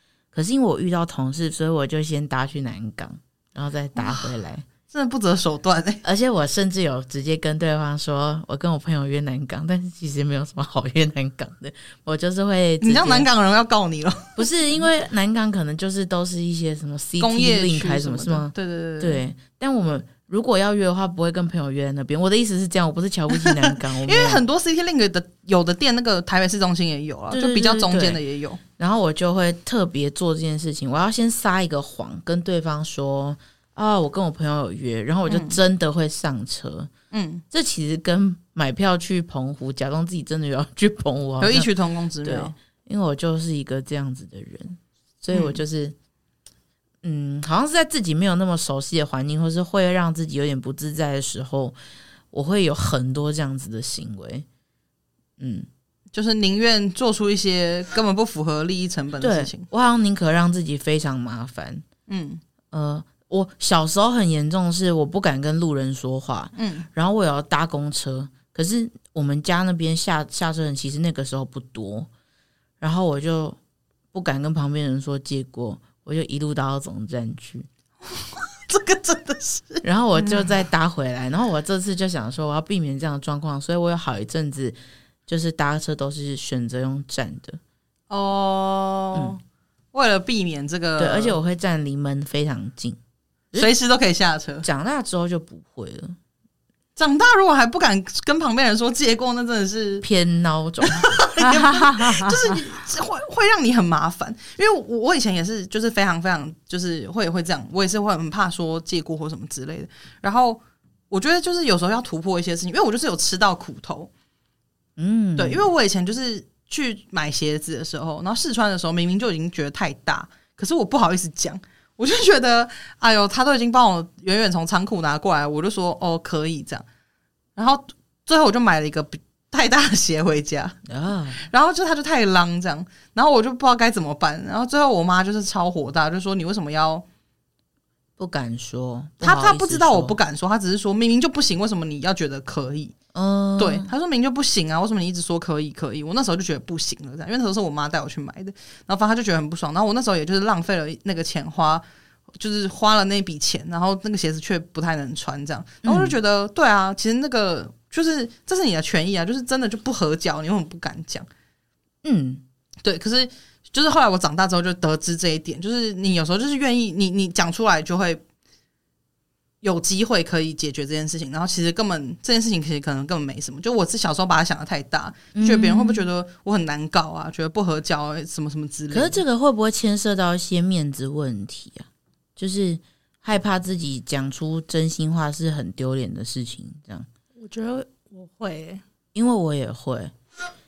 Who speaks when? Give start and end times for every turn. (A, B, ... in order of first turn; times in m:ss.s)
0:00.3-0:04.7 A
0:04.0-0:04.4 B
0:04.9-0:06.0 B
0:06.0-0:13.3 A
0:12.8-0:14.5 B
0:14.4-0:24.4 A
0:17.2-0:19.2 B
0:23.3-0:28.6 B
0:27.3-0:28.2 A
0:28.8-0:36.9 A
0:35.3-0:35.6 B
0:37.1-0:37.4 B
0:37.5-0:41.7 A
0:41.4-0:42.5 B
0:42.2-0:46.0 A
0:45.3-0:45.6 B
0:47.0-0:51.8 A
0:52.3-0:54.5 A
0:55.4-0:55.7 A
0:56.1-0:59.6 B
0:59.2-1:01.8 A
1:02.1-1:02.4 B
1:02.7-1:12.1 A
1:06.6-1:06.9 B
1:12.8-1:13.6 A
1:14.1-1:17.7 A
1:18.1-1:20.6 B
1:19.8-1:27.6 A
1:28.1-1:29.4 B
1:29.9-1:31.4 B
1:31.0-1:33.0 A
1:33.5-1:34.7 B
1:34.6-1:36.2 A
1:37.0-1:40.0 B
1:40.0-1:41.1 A
1:40.8-1:54.1 B
1:41.4-1:42.6 C
1:55.0-1:55.7 A
1:55.4-2:06.8 B
2:07.6-2:10.8 B
2:10.9-2:11.4 A
2:11.4-2:17.0 B
2:18.2-2:20.2 A
2:19.2-2:23.0 B
2:23.1-2:23.9 A
2:23.6-2:31.8 B
2:32.4-2:41.3 B
2:35.8-2:36.2 A
2:42.0-2:42.4 A
2:42.8-2:48.2 B
2:49.6-2:59.2 B
2:55.3-2:56.1 A
2:58.9-3:07.1 A
3:07.4-3:08.8 C
3:09.2-3:10.1 A